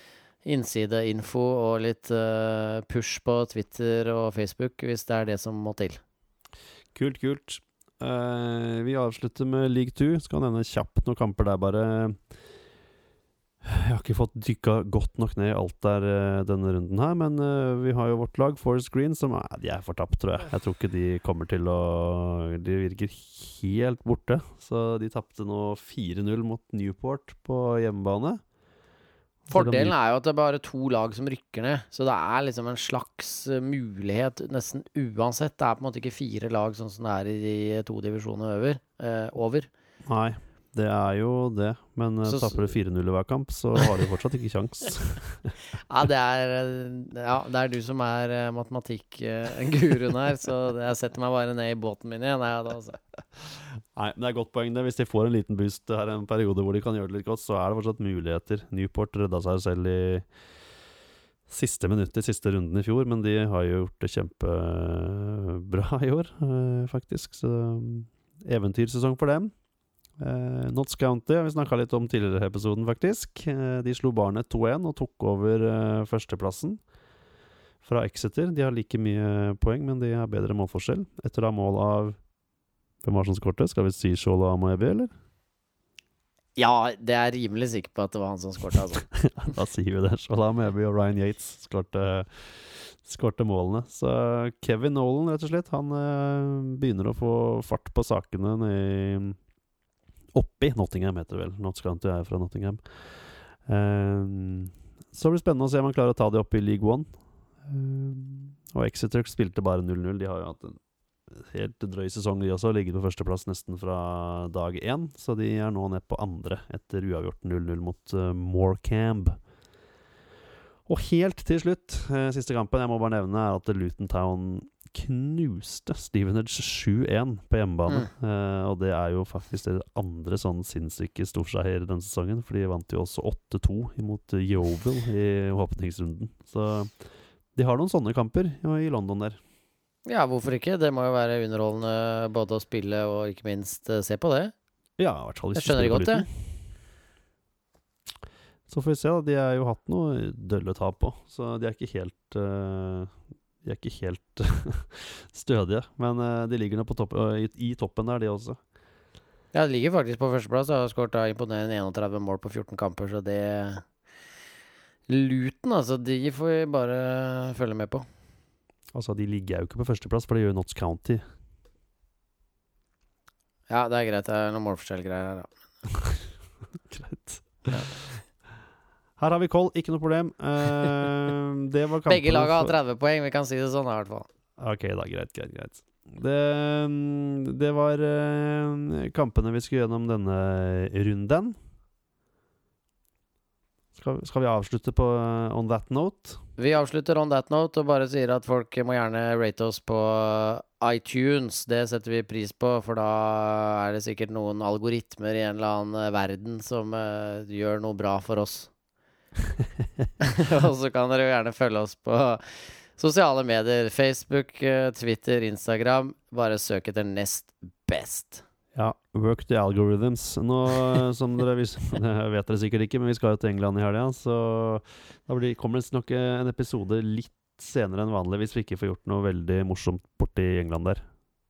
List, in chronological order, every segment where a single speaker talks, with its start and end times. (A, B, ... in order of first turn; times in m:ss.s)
0:00.4-0:06.0 A
0:07.0-0:12.2 B
0:13.6-0:28.4 B
0:29.5-0:29.9 B
0:29.5-0:39.7 A
0:40.0-0:45.5 B
0:42.3-0:42.6 A
0:45.9-0:53.0 A
0:54.0-1:00.3 B
1:01.5-1:09.5 B
1:10.2-1:16.8 B
1:17.8-1:22.2 B
1:23.0-1:25.1 B
1:26.6-1:29.1 A
1:29.0-1:39.4 B
1:40.3-1:43.1 B
1:43.7-1:47.1 B
1:47.6-1:59.4 B
2:00.9-2:17.0 B
2:17.6-2:19.4 B
2:20.1-2:24.5 A
2:25.0-2:26.5 B
2:25.6-2:26.3 A
2:28.7-2:38.6 B
2:39.5-2:43.9 A
2:45.1-2:48.1 A
2:48.9-2:51.2 B
2:53.7-2:55.5 A
2:56.9-2:57.9 B
2:59.2-3:02.7 B
3:02.1-3:04.3 A
3:04.6-3:11.6 B
3:14.0-3:16.4 B
3:16.6-3:28.7 A
3:29.6-3:30.1 B
3:30.2-3:38.4 A
3:38.8-3:51.0 B